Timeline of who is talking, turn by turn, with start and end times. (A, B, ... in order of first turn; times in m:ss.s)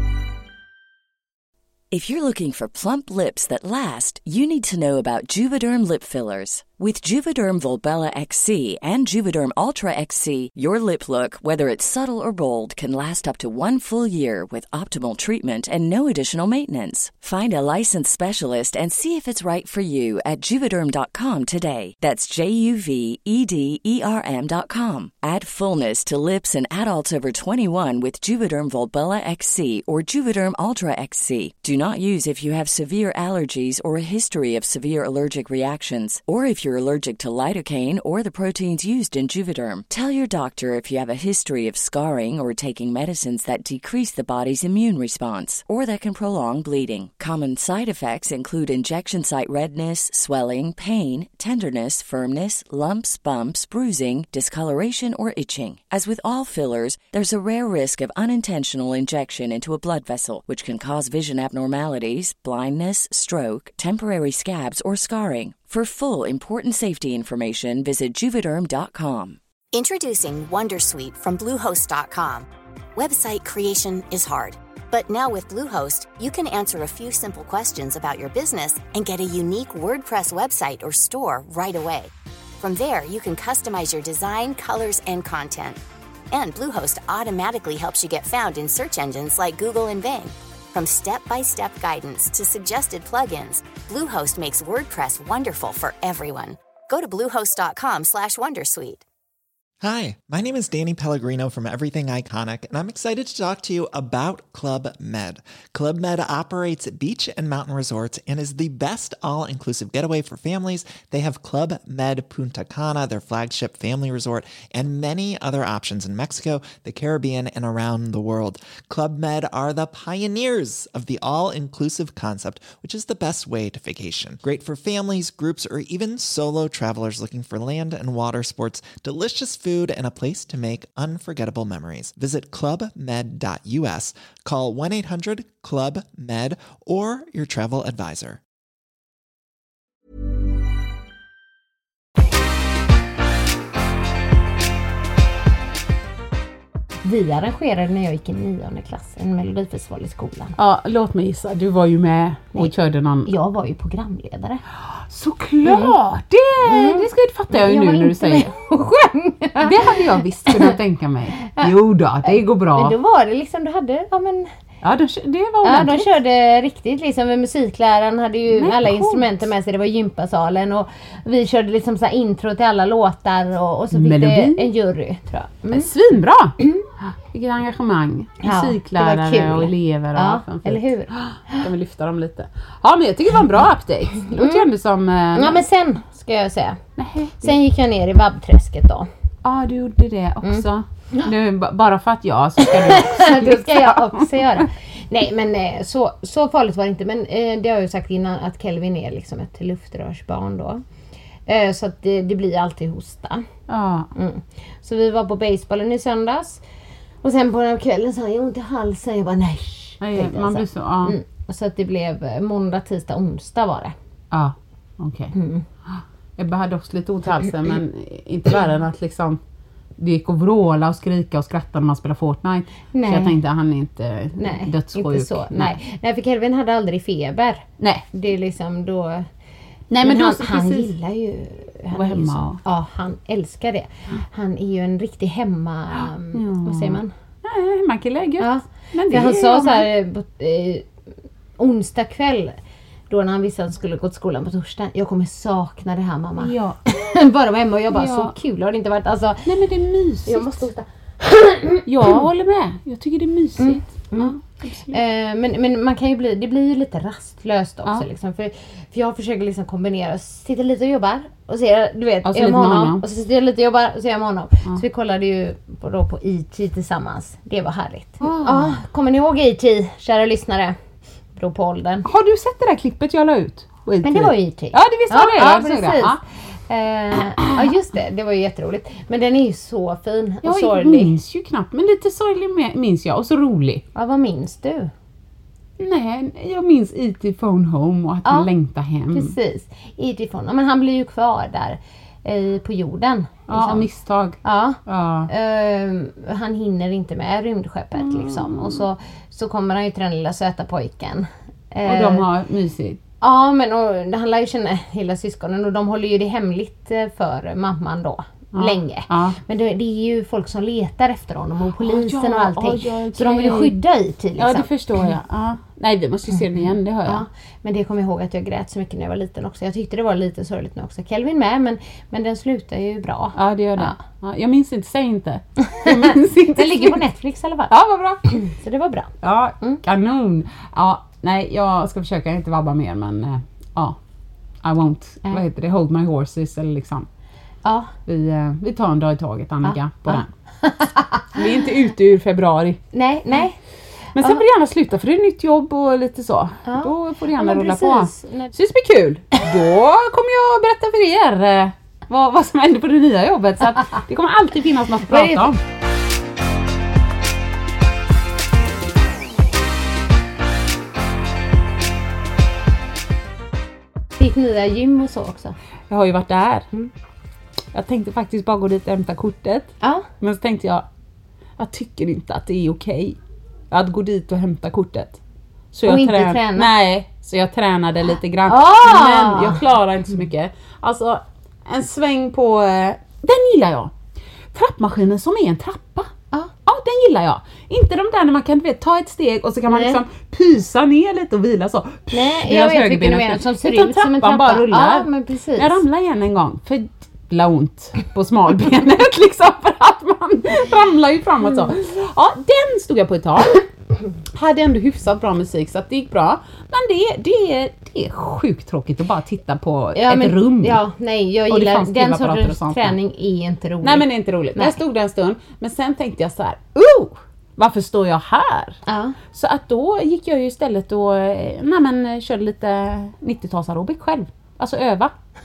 0:01.9-1:09.4 A
1:09.7-1:25.8 B
1:26.3-1:39.0 B
1:39.8-2:18.4 C
2:27.0-2:30.6 D
2:30.6-2:33.3 E
2:33.2-2:34.6 D
2:34.7-2:38.5 E
2:35.6-2:35.9 D
2:36.6-2:40.8 D
2:39.6-2:42.9 E
2:41.4-2:44.5 D
2:44.8-2:46.1 E
2:45.6-2:55.9 D
2:48.5-2:49.5 E
2:53.9-2:54.7 E
2:55.7-3:05.6 E
2:58.4-3:01.6 D
3:04.3-3:04.7 D
3:05.3-3:06.8 D
3:07.0-3:07.5 E
3:07.4-3:09.1 D
3:09.4-3:14.7 E
3:10.4-3:11.3 D
3:12.6-3:20.8 D
3:21.5-3:23.4 D
3:23.7-3:24.1 E
3:24.1-3:26.6 D
3:27.2-3:33.9 D
3:30.0-3:31.2 E
3:34.3-3:35.3 E
3:35.3-3:35.6 D
3:35.8-3:39.4 E
3:40.0-3:45.7 E
3:42.9-3:43.4 D
3:44.4-3:49.3 D
3:47.8-3:48.0 E
3:49.9-3:50.9 E
3:50.0-3:57.1 D
3:51.9-3:52.6 E
3:55.9-3:59.9 E
3:58.4-4:00.9 D
4:01.6-4:02.5 D
4:03.1-4:09.5 D
4:06.4-4:06.8 E
4:07.9-4:08.3 E
4:09.4-4:10.6 E
4:10.2-4:12.2 D
4:11.8-4:15.0 E
4:13.6-4:14.3 D
4:14.9-4:30.7 D
4:22.2-4:23.0 E
4:28.2-4:28.8 E
4:31.4-4:32.0 D
4:32.0-4:36.2 E
4:34.0-4:41.1 D
4:37.1-4:37.7 E
4:40.4-4:43.8 E
4:43.9-4:44.9 D
4:45.8-4:49.3 E
4:49.1-4:53.9 D
4:53.5-4:55.3 E
4:54.4-5:02.2 D
4:58.0-4:58.8 E
5:01.8-5:03.0 E
5:03.2-5:14.7 D
5:08.5-5:09.4 E
5:11.8-5:13.8 E
5:14.4-5:17.2 E
5:17.1-5:24.0 D
5:23.3-5:27.0 E
5:25.7-5:27.7 D
5:27.7-5:28.4 E
5:28.3-5:29.8 D
5:29.2-5:34.0 E
5:34.6-5:37.1 E
5:37.6-5:37.9 D
5:38.0-5:40.3 E
5:39.6-5:41.0 D
5:41.3-5:42.8 E
5:42.9-5:43.6 D
5:44.2-5:55.6 E
5:46.6-5:48.5 D
5:55.1-5:55.5 D
6:04.2-6:05.5 D
6:05.9-6:06.7 E
6:07.7-6:10.8 E
6:09.8-6:10.0 D
6:11.6-6:13.2 E
6:13.7-6:15.2 E
6:15.7-6:23.9 E
6:15.8-6:16.7 D
6:18.5-6:19.6 D
6:24.5-6:26.1 E
6:26.6-6:43.7 E
6:29.7-6:30.0 D
6:32.1-6:35.8 D
6:41.4-6:41.7 D
6:44.3-6:50.8 E
6:49.9-6:54.8 D
6:51.5-6:53.0 E
6:53.8-6:58.8 E
6:58.9-6:59.2 D
6:59.3-7:05.1 E